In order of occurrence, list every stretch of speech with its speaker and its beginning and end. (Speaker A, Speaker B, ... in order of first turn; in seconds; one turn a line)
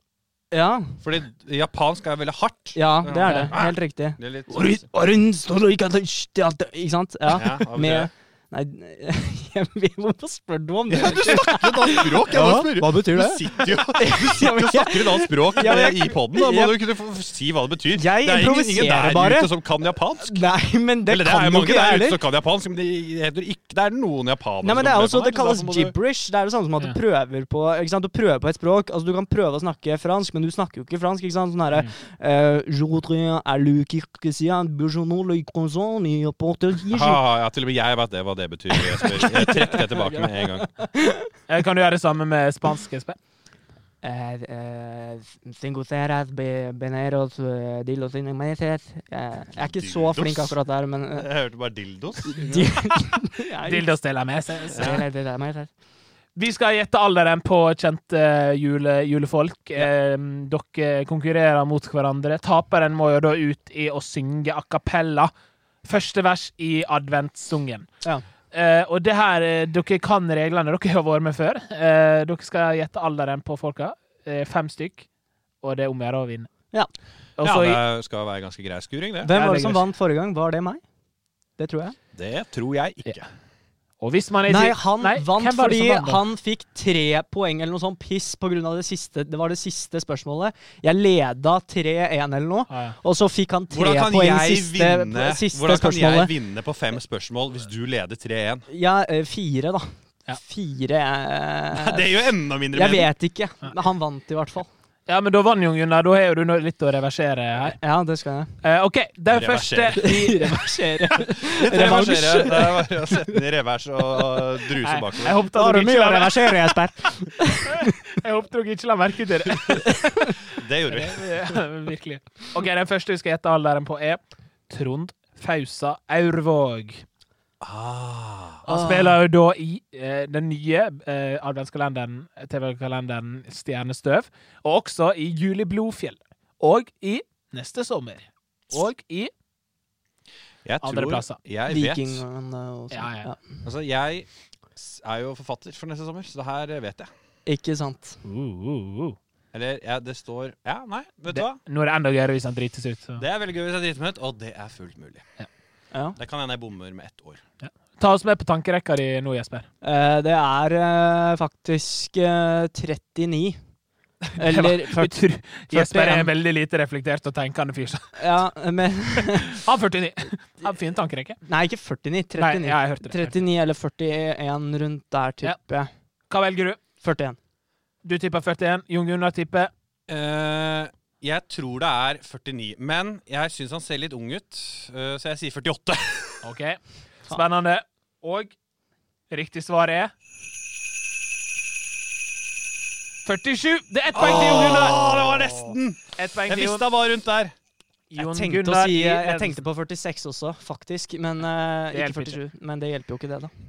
Speaker A: 0.5-1.0
Speaker B: 1.0-4.9
Speaker A: 2.8-16.8
Speaker B: 7.3-8.1
Speaker B: 10.9-20.4
Speaker A: 17.9-19.5
Speaker A: 20.2-22.2
Speaker B: 21.1-25.9
Speaker A: 24.6-37.2
Speaker B: 36.9-40.7
Speaker A: 38.8-41.3
Speaker C: 41.5-43.2
Speaker A: 44.0-51.3
Speaker B: 49.6-50.6
Speaker B: 51.1-52.7
Speaker A: 52.2-53.9
Speaker C: 53.7-54.9
Speaker A: 54.7-55.7
Speaker B: 54.8-55.0
Speaker C: 56.4-65.3
Speaker C: 65.8-67.9
Speaker C: 68.5-75.1
Speaker C: 75.6-76.5
Speaker C: 77.4-77.8
Speaker B: 77.4-79.3
Speaker A: 79.2-80.8
Speaker C: 79.3-79.8
Speaker A: 81.6-82.0
Speaker B: 82.1-83.3
Speaker C: 84.0-86.2
Speaker A: 84.5-96.3
Speaker C: 92.7-93.0
Speaker B: 93.7-98.7
Speaker A: 98.7-102.1
Speaker B: 101.7-103.1
Speaker A: 102.7-104.7
Speaker C: 105.1-107.8
Speaker A: 107.7-108.5
Speaker C: 108.6-110.9
Speaker B: 109.3-110.1
Speaker A: 110.0-113.1
Speaker B: 111.4-115.4
Speaker C: 114.8-116.8
Speaker A: 115.5-117.9
Speaker C: 117.8-120.0
Speaker B: 120.5-121.6
Speaker C: 120.9-127.0
Speaker B: 127.6-128.6
Speaker C: 128.7-139.3
Speaker A: 128.7-129.2
Speaker B: 140.7-142.2
Speaker C: 140.8-141.4
Speaker A: 141.7-143.6
Speaker C: 142.9-143.3
Speaker B: 143.6-147.1
Speaker A: 147.5-148.2
Speaker C: 148.2-149.2
Speaker B: 149.5-151.6
Speaker C: 151.3-153.2
Speaker B: 153.2-155.2
Speaker B: 156.2-157.4
Speaker C: 157.6-159.7
Speaker A: 159.8-163.6
Speaker C: 164.3-168.2
Speaker A: 164.4-165.1
Speaker A: 165.7-166.3
Speaker A: 168.2-169.6
Speaker C: 169.5-171.4
Speaker A: 171.5-175.9
Speaker C: 172.4-173.4
Speaker C: 176.3-176.8
Speaker A: 177.0-177.4
Speaker C: 178.0-179.7
Speaker B: 180.1-186.4
Speaker C: 186.4-188.5
Speaker C: 189.3-190.1
Speaker C: 193.2-195.0
Speaker B: 194.1-197.5
Speaker C: 196.2-196.8
Speaker C: 198.1-199.6
Speaker A: 198.2-203.5
Speaker C: 201.9-202.4